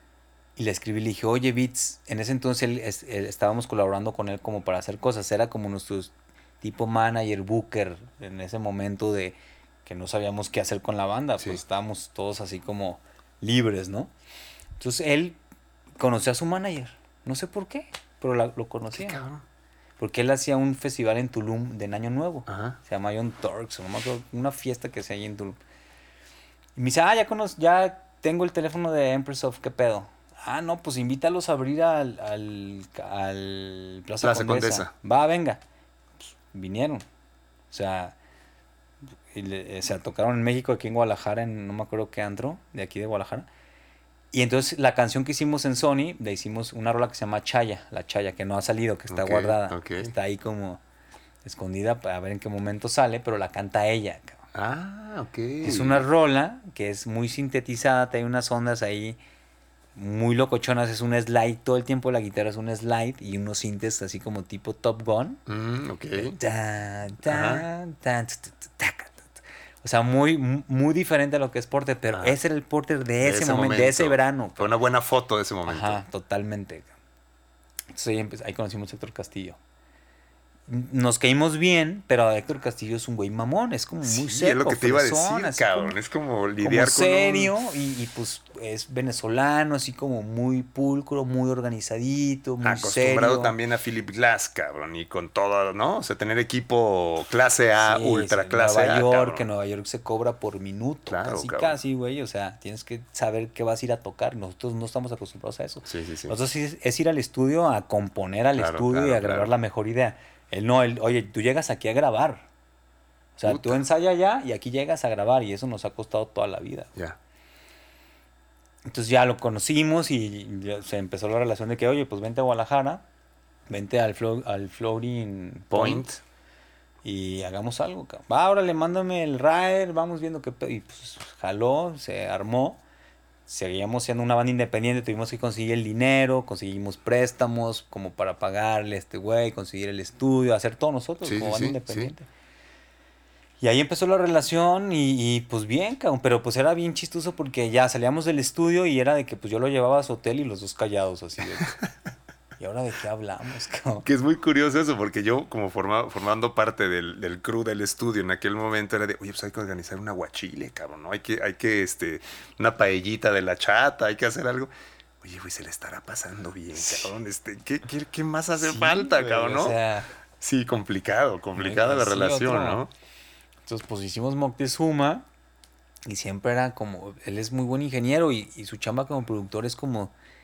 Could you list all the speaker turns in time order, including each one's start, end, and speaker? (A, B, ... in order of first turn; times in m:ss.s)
0:00.6-0:14.1 A
0:14.8-0:15.4 A
0:16.0-0:19.2 A
0:18.9-0:19.4 B
0:20.0-0:25.6 A
0:22.5-0:22.8 B
0:26.8-0:35.6 A
0:34.2-0:34.9 B
0:36.5-0:37.0 A
0:37.7-0:38.2 A
0:39.3-0:43.5 A
0:44.3-0:50.8 A
0:49.1-0:50.1 B
0:51.4-0:54.4 A
0:54.5-0:56.0 B
0:55.6-0:59.2 A
1:00.0-1:05.4 A
1:05.5-1:06.4 B
1:06.2-1:14.7 A
1:07.3-1:07.6 B
1:12.1-1:12.4 B
1:13.2-1:16.0 B
1:15.7-1:16.9 A
1:17.9-1:19.6 A
1:20.7-1:26.0 A
1:24.0-1:27.5 B
1:26.6-1:33.6 A
1:32.6-1:39.5 B
1:37.8-1:52.4 A
1:41.1-1:41.8 B
1:45.8-1:46.4 B
1:48.6-1:49.5 B
1:53.4-1:56.9 A
1:53.5-1:53.8 B
1:58.9-2:03.0 A
2:03.7-2:06.1 A
2:05.7-2:06.2 B
2:07.0-2:12.8 A
2:13.5-2:22.3 A
2:21.2-2:22.1 B
2:23.6-2:31.7 A
2:32.6-2:34.1 A
2:34.0-2:44.7 B
2:45.2-2:49.8 B
2:46.8-2:47.1 A
2:48.6-2:50.1 A
2:50.4-2:52.9 B
2:51.6-2:52.8 A
2:53.7-2:55.3 A
2:56.1-3:00.1 A